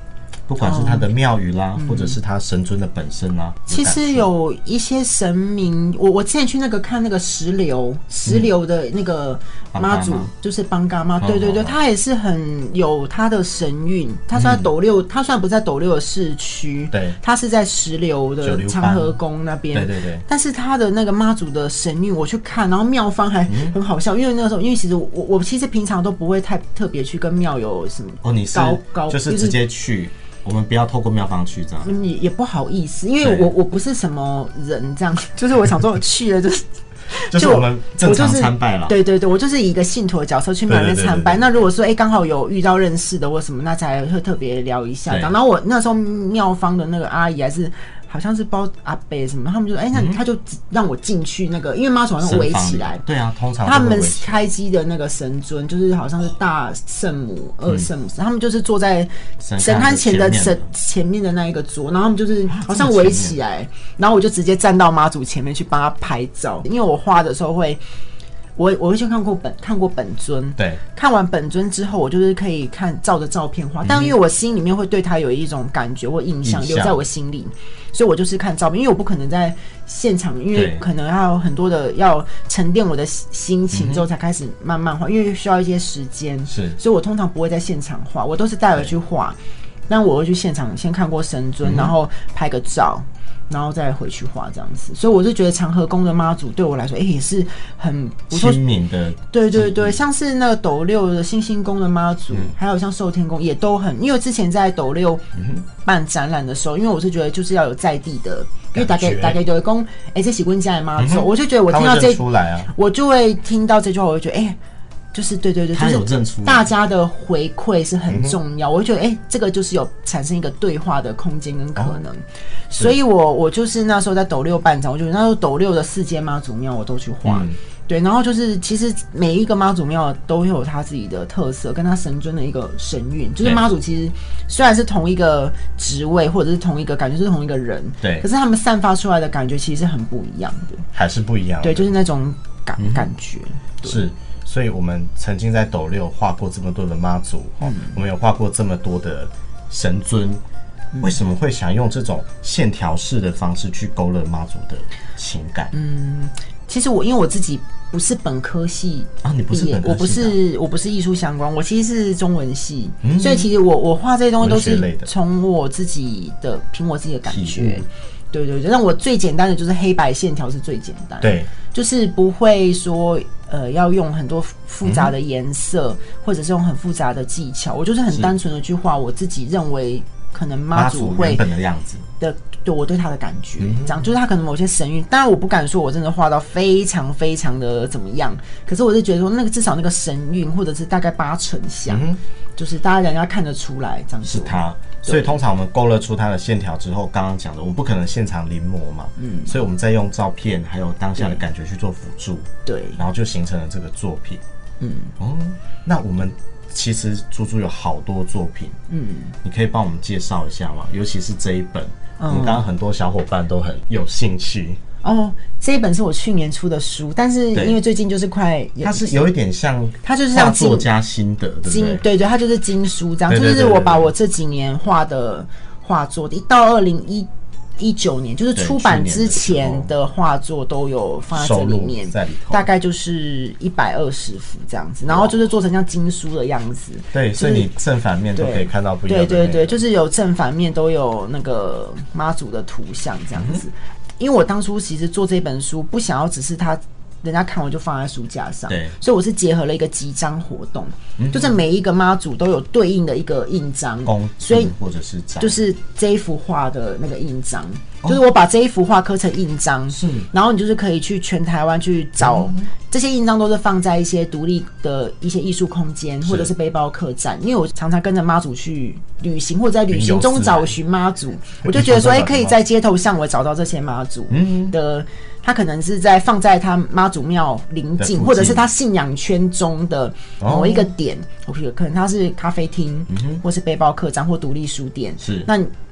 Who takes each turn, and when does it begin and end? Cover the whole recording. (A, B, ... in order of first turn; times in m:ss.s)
0:00.5-0:04.3 A
0:00.6-0:01.1 B
0:01.8-0:02.2 B
0:03.7-0:29.6 B
0:09.7-0:10.3 A
0:11.2-0:11.7 A
0:14.4-0:14.6 A
0:16.9-0:17.2 A
0:18.4-0:19.1 A
0:19.7-0:20.2 A
0:23.5-0:23.8 A
0:28.2-0:31.9 A
0:31.8-0:53.0 B
0:33.2-0:33.5 A
0:37.3-0:39.0 A
0:40.7-0:41.4 A
0:45.1-0:45.3 A
0:49.9-0:50.2 A
0:52.2-0:54.4 A
0:53.6-1:07.8 B
0:59.4-1:00.7 A
1:02.5-1:03.4 A
1:08.6-1:29.4 B
1:13.8-1:14.1 A
1:16.4-1:17.0 A
1:20.5-1:20.8 A
1:23.7-1:24.0 A
1:26.5-1:26.8 A
1:29.9-1:38.6 B
1:31.6-1:31.9 A
1:38.3-1:40.0 A
1:39.3-1:54.6 B
1:45.3-1:45.6 A
1:48.7-1:49.4 A
1:51.0-1:52.7 A
1:55.1-2:20.8 B
1:55.7-1:56.7 A
1:58.1-1:58.4 A
2:07.2-2:07.6 A
2:20.9-2:21.9 A
2:21.6-2:24.0 B
2:22.8-2:23.0 A
2:23.8-2:30.4 A
2:27.6-2:28.0 B
2:31.0-2:35.7 A
2:35.7-3:01.4 B
2:39.2-2:40.4 A
2:43.0-2:43.5 A
2:44.4-2:45.1 A
2:47.3-2:47.8 A
2:51.2-2:51.5 A
2:54.8-2:55.1 A
3:00.7-3:02.1 A
3:02.2-3:15.4 B
3:03.6-3:04.0 A
3:11.9-3:12.2 A
3:14.2-3:24.4 A
3:19.2-3:19.5 B
3:22.6-3:23.0 B
3:24.8-3:25.1 B
3:25.2-3:28.8 A
3:28.9-3:29.3 B
3:29.4-3:34.8 A
3:32.2-3:32.6 B
3:35.0-3:39.2 B
3:38.8-3:42.0 A
3:40.0-3:40.9 B
3:41.6-3:57.7 B
3:43.3-3:44.1 A
3:48.5-3:49.9 A
3:51.3-3:52.6 A
3:55.1-3:55.4 A
3:57.1-3:59.8 A
3:58.3-4:14.7 B
4:03.4-4:03.6 A
4:08.7-4:09.0 A
4:11.2-4:11.6 A
4:14.0-4:15.6 A
4:15.4-4:45.7 B
4:19.9-4:20.3 A
4:22.2-4:22.7 A
4:26.2-4:26.5 A
4:29.9-4:30.7 A
4:31.6-4:32.6 A
4:34.3-4:34.8 A
4:38.0-4:38.6 A
4:40.4-4:40.9 A
4:43.1-4:43.4 A
4:45.2-4:45.5 A